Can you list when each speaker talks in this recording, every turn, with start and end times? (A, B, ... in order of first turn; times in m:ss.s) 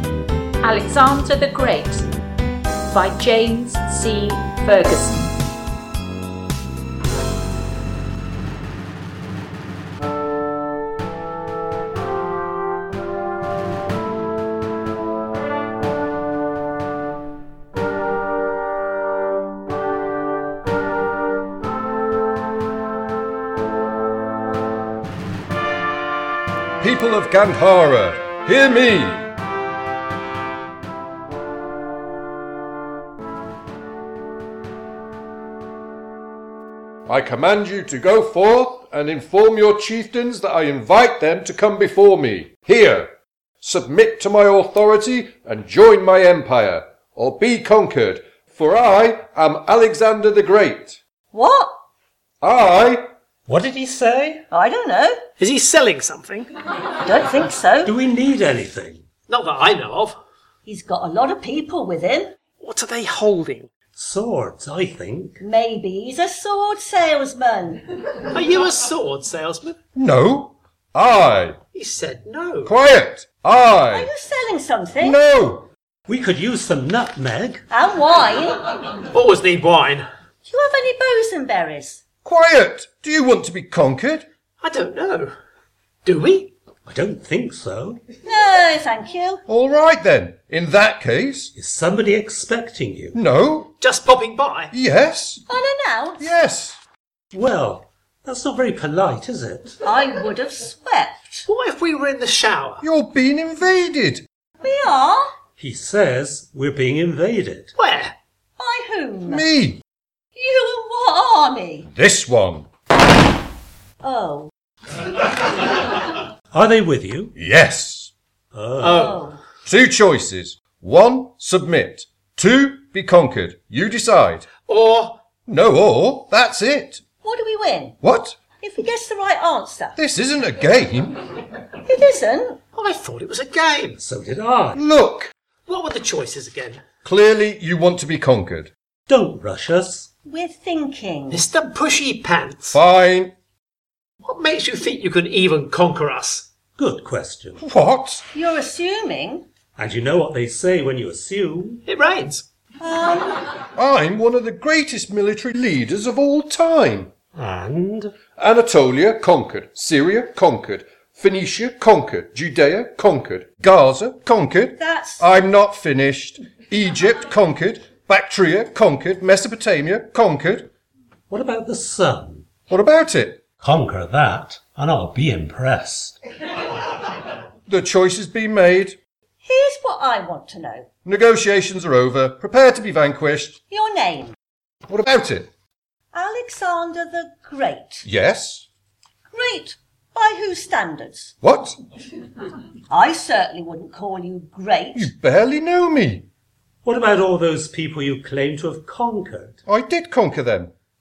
0:00.6-0:02.1 A
0:02.9-0:05.3 A
0:26.8-0:29.3 B
0:37.1-0:51.0 B
0:51.3-0:51.8 C
0:52.4-0:53.1 B
0:53.5-0:54.5 D
0:54.5-0:55.2 C
0:55.4-0:56.5 E
0:57.0-0:58.0 C
0:57.8-0:59.1 D
0:59.3-1:00.2 E
1:00.6-1:02.4 C
1:02.6-1:03.7 E
1:03.9-1:05.4 D
1:05.4-1:07.8 C
1:08.3-1:09.8 E
1:10.0-1:11.6 B
1:11.7-1:12.7 E
1:12.6-1:14.1 B
1:13.9-1:15.2 C
1:15.0-1:15.7 B
1:16.1-1:17.6 D
1:17.7-1:18.7 C
1:19.0-1:20.1 E
1:20.5-1:22.0 C
1:22.2-1:24.3 B
1:24.6-1:25.3 E
1:26.0-1:26.6 E
1:26.8-1:28.0 D
1:28.2-1:29.4 C
1:29.5-1:31.5 B
1:31.6-1:33.2 D
1:33.1-1:33.7 B
1:33.8-1:34.7 E
1:34.7-1:35.4 B
1:35.5-1:36.2 C
1:36.2-1:36.8 B
1:37.3-1:39.8 D
1:39.8-1:41.4 C
1:41.5-1:42.8 E
1:42.8-1:44.2 B
1:44.6-1:45.3 C
1:45.6-1:47.8 D
1:47.8-1:48.2 E
1:48.6-1:49.5 C
1:49.3-1:49.8 B
1:50.4-1:51.9 C
1:51.9-1:52.7 B
1:54.0-1:54.5 C
1:56.5-1:57.3 D
1:57.4-1:58.1 B
1:58.5-1:58.9 D
1:58.9-1:59.2 E
1:58.9-1:59.4 C
1:59.7-2:04.5 B
2:04.7-2:05.2 E
2:05.4-2:07.0 B
2:07.2-2:08.0 C
2:08.0-2:08.4 B
2:08.6-2:10.0 C
2:10.0-2:11.3 B
2:11.8-2:12.6 C
2:12.8-2:14.0 E
2:14.0-2:14.8 D
2:14.7-2:15.3 B
2:15.7-2:16.8 E
2:17.0-2:18.7 B
2:19.1-2:20.1 D
2:20.3-2:21.5 C
2:21.3-2:22.8 E
2:22.7-2:23.3 B
2:24.2-2:26.5 E
2:26.7-2:27.6 D
2:27.6-2:28.2 B
2:28.3-2:29.5 C
2:29.8-2:31.8 D
2:31.9-2:32.5 E
2:32.8-2:33.4 C
2:33.8-2:37.1 B
2:37.3-2:38.2 D
2:38.3-2:50.7 B
2:44.8-2:45.3 C
2:51.3-2:52.5 D
2:52.7-2:53.5 B
2:53.6-2:56.2 D
2:57.7-2:59.0 B
2:59.4-3:00.9 C
3:01.0-3:03.6 B
3:03.7-3:04.4 C
3:04.9-3:05.5 B
3:06.1-3:08.0 C
3:08.0-3:08.7 B
3:09.3-3:11.3 C
3:11.4-3:11.8 B
3:12.9-3:15.1 C
3:14.9-3:16.3 B
3:16.8-3:19.6 D
3:19.7-3:20.7 B